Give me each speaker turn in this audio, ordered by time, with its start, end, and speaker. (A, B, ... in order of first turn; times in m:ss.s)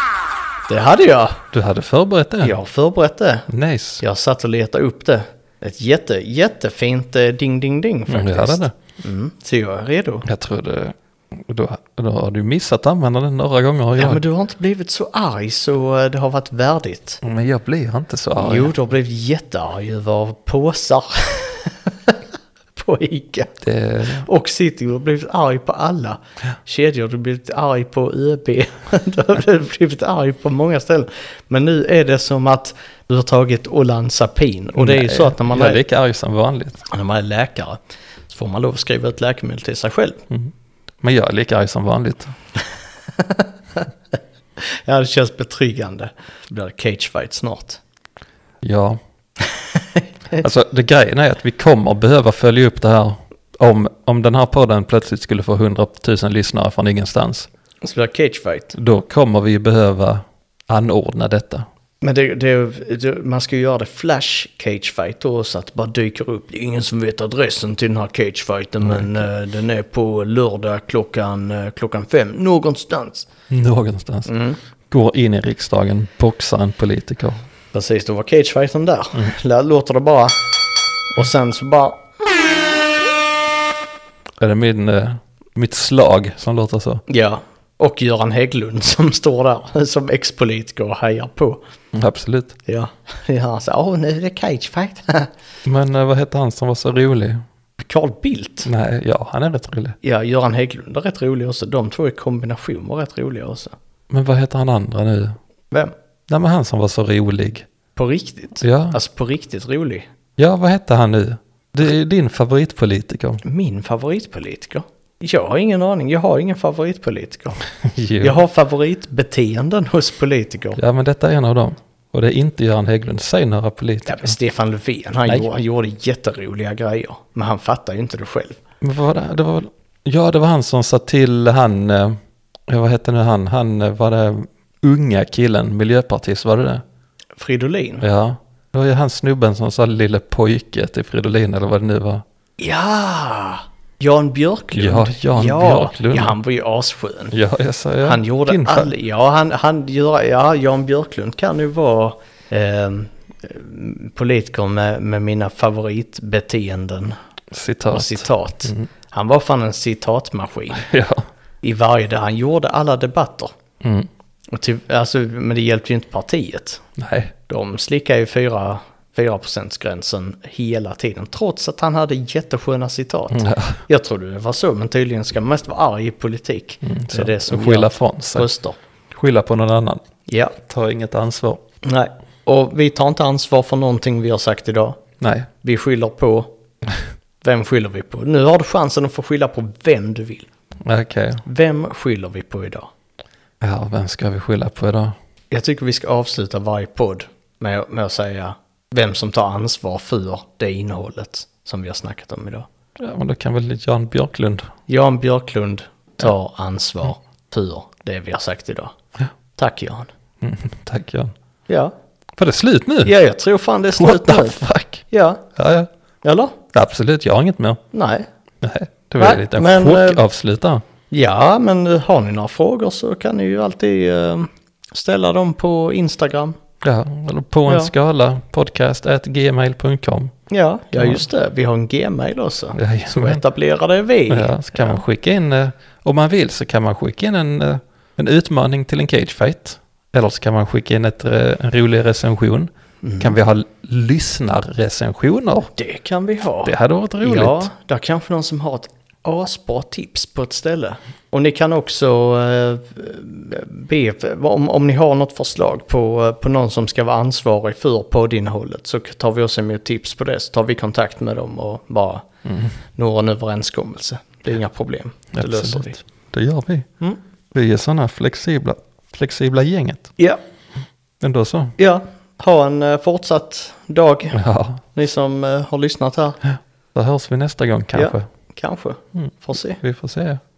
0:00.7-0:01.4 A
0:01.5-0:02.6 B
0:02.4-0:03.5 A
0:03.5-0:04.0 B
0:04.0-0:10.3 A
0:08.1-0:08.7 B
0:10.2-0:14.2 B
0:14.0-0:17.2 A
0:17.2-0:18.7 B
0:18.4-0:22.2 A
0:22.7-0:23.5 A
0:23.6-0:24.3 B
0:24.1-0:35.8 A
0:34.8-0:36.8 B
0:36.9-0:40.2 A
0:40.3-0:42.3 B
0:43.1-0:43.8 A
0:44.6-0:47.8 A
0:48.6-0:49.0 B
0:49.4-0:50.4 A
0:50.3-0:57.5 B
0:57.8-0:58.7 A
0:58.7-1:01.7 B
1:02.0-1:13.3 A
1:13.5-1:17.4 B
1:14.3-1:14.6 A
1:17.7-1:20.4 A
1:21.1-1:22.6 A
1:24.4-1:27.0 B
1:27.1-1:31.6 A
1:31.9-1:32.6 B
1:32.6-1:35.3 A
1:35.6-1:37.4 B
1:37.8-1:38.7 A
1:38.6-1:40.0 B
1:40.0-1:43.7 A
1:44.1-1:45.4 B
1:46.3-1:47.7 B
1:48.0-1:50.1 A
1:48.6-1:49.0 B
1:50.4-1:53.4 B
1:53.4-1:57.6 A
1:57.8-1:58.4 B
1:58.2-2:00.8 A
2:00.8-2:04.4 B
2:04.1-2:08.6 A
2:08.8-2:16.8 B
2:17.4-2:18.0 A
2:18.0-2:22.2 B
2:22.6-2:27.3 A
2:24.7-2:26.4 B
2:27.3-2:28.9 B
2:28.0-2:37.2 A
2:37.5-2:38.9 B
2:37.9-2:40.8 A
2:40.7-2:41.2 B
2:41.6-2:43.5 A
2:43.8-2:44.1 B
2:44.5-2:46.8 A
2:47.0-2:47.3 B
2:47.5-2:58.8 A
2:53.3-2:53.8 B
2:56.8-2:58.5 B
2:59.1-3:00.0 B
3:00.3-3:00.5 A
3:00.6-3:01.6 B
3:01.8-3:05.0 A
3:05.2-3:05.5 B
3:05.6-3:06.5 A
3:07.4-3:10.5 A
3:10.8-3:11.4 B
3:11.4-3:12.9 A
3:13.6-3:15.1 B
3:15.5-3:22.7 A
3:23.0-3:24.7 B
3:24.9-3:28.9 A
3:29.5-3:30.1 A
3:30.4-3:31.3 B
3:31.7-3:31.9 A
3:32.4-3:33.1 B
3:33.0-3:35.4 A
3:34.0-3:35.9 B
3:36.2-3:36.6 A
3:36.7-3:37.8 B
3:37.9-3:38.3 A
3:38.6-3:40.8 B
3:39.2-3:40.2 A
3:41.1-3:46.6 A
3:46.8-3:50.3 B
3:47.7-3:47.9 A
3:50.5-3:55.0 A
3:50.9-3:51.2 B
3:52.7-3:53.4 B
3:54.3-4:05.7 B
4:03.0-4:03.4 A
4:05.7-4:22.2 A
4:06.6-4:07.7 B
4:22.4-4:22.7 B
4:23.0-4:26.0 A
4:25.3-4:26.9 B
4:27.5-4:30.1 B
4:31.2-4:31.8 B
4:31.8-4:34.4 A
4:34.3-4:34.8 B
4:34.9-4:36.4 A
4:36.4-4:38.3 B
4:37.9-4:39.8 A
4:39.1-4:40.4 B